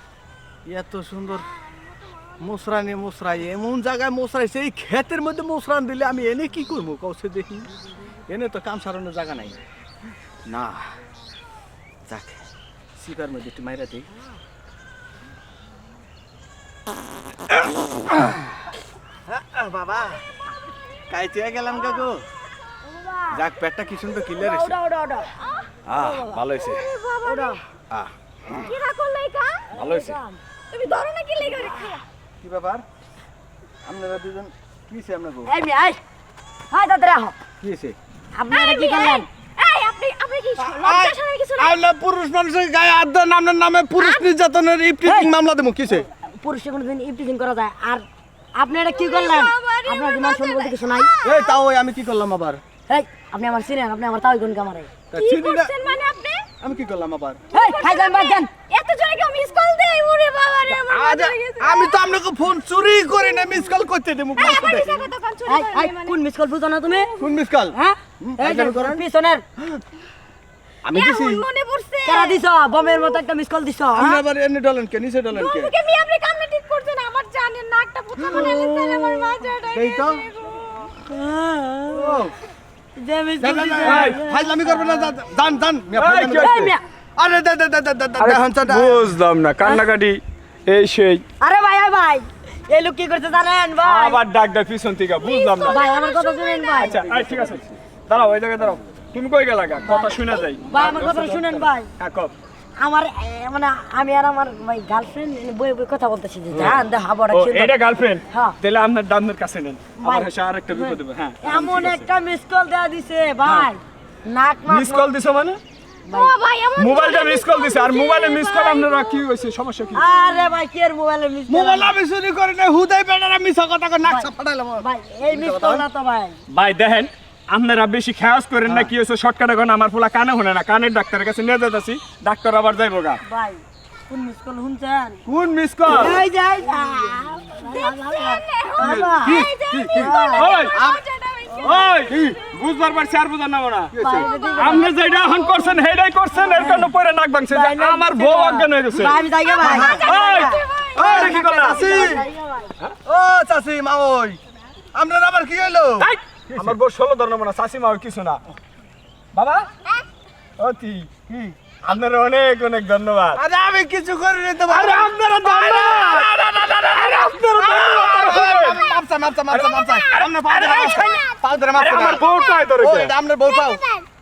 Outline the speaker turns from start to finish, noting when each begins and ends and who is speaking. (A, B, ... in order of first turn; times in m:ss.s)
0:00.7-0:01.5 A
0:02.4-0:07.7 A
0:08.3-0:09.6 A
0:10.5-0:10.9 A
0:12.1-0:12.4 A
0:13.0-0:14.1 A
0:19.3-0:20.2 A
0:21.1-0:22.2 A
0:22.9-0:23.4 B
0:23.3-0:24.7 A
0:24.4-0:25.3 B
0:25.5-0:27.6 C
0:25.9-0:26.9 A
0:27.2-0:27.6 B
0:27.9-0:28.7 A
0:28.6-0:29.7 C
0:29.7-0:30.2 A
0:29.8-0:30.4 B
0:30.7-0:32.0 C
0:32.4-0:32.8 A
0:33.8-0:35.5 A
0:35.5-0:36.0 B
0:36.7-0:37.4 B
0:37.6-0:38.0 A
0:38.4-0:39.3 B
0:38.5-0:41.8 C
0:40.6-0:46.1 A
0:44.0-0:44.3 C
0:45.0-0:45.3 B
0:46.3-0:48.0 B
0:48.6-0:51.1 B
0:48.9-0:51.6 C
0:51.2-0:52.6 A
0:52.9-0:54.9 B
0:55.1-0:55.7 A
0:55.1-0:56.5 C
0:56.6-0:57.4 A
0:57.5-0:58.5 B
0:57.5-1:02.2 C
1:00.7-1:05.1 A
1:04.4-1:06.2 C
1:05.5-1:07.1 B
1:07.0-1:07.3 C
1:07.2-1:09.0 A
1:07.7-1:09.4 B
1:10.8-1:11.4 A
1:10.9-1:13.2 C
1:12.0-1:14.2 B
1:13.9-1:15.7 A
1:15.3-1:21.0 C
1:18.3-1:18.6 A
1:18.4-1:19.1 B
1:19.7-1:20.2 A
1:21.0-1:22.2 B
1:21.9-1:22.3 A
1:23.0-1:25.1 B
1:23.4-1:29.1 A
1:23.8-1:24.2 D
1:26.0-1:26.7 D
1:26.4-1:26.8 B
1:28.2-1:31.2 D
1:31.4-1:34.2 B
1:33.8-1:35.8 D
1:35.2-1:37.0 C
1:35.6-1:37.1 B
1:36.8-1:42.3 D
1:37.1-1:37.7 A
1:40.6-1:41.9 B
1:42.8-1:47.8 B
1:46.5-1:52.1 D
1:48.3-1:48.6 B
1:50.0-1:55.1 B
1:53.4-1:53.7 D
1:54.7-1:55.6 D
1:56.1-1:56.3 B
1:56.1-1:59.2 C
1:56.8-2:00.0 D
2:00.0-2:02.0 B
2:01.5-2:05.9 A
2:04.0-2:06.4 B
2:06.5-2:13.2 D
2:13.2-2:15.2 B
2:15.3-2:16.2 D
2:15.9-2:20.6 B
2:17.5-2:22.1 C
2:18.8-2:20.2 A
2:20.3-2:20.8 D
2:20.7-2:21.0 A
2:21.6-2:23.9 D
2:22.1-2:22.4 A
2:23.9-2:24.3 A
2:24.0-2:24.9 B
2:24.2-2:25.7 C
2:24.6-2:29.2 D
2:26.6-2:26.9 B
2:27.5-2:30.6 B
2:29.4-2:32.1 C
2:29.6-2:30.0 A
2:29.9-2:31.9 D
2:31.0-2:32.3 A
2:31.2-2:32.7 B
2:33.0-2:34.4 A
2:34.9-2:36.7 A
2:36.0-2:38.4 D
2:39.3-2:39.7 D
2:40.6-2:41.2 D
2:41.3-2:41.6 A
2:41.8-2:43.4 D
2:43.4-2:52.3 A
2:44.7-2:48.8 D
2:49.5-2:51.2 D
2:51.7-2:53.1 D
2:52.8-2:53.9 A
2:53.6-2:54.0 C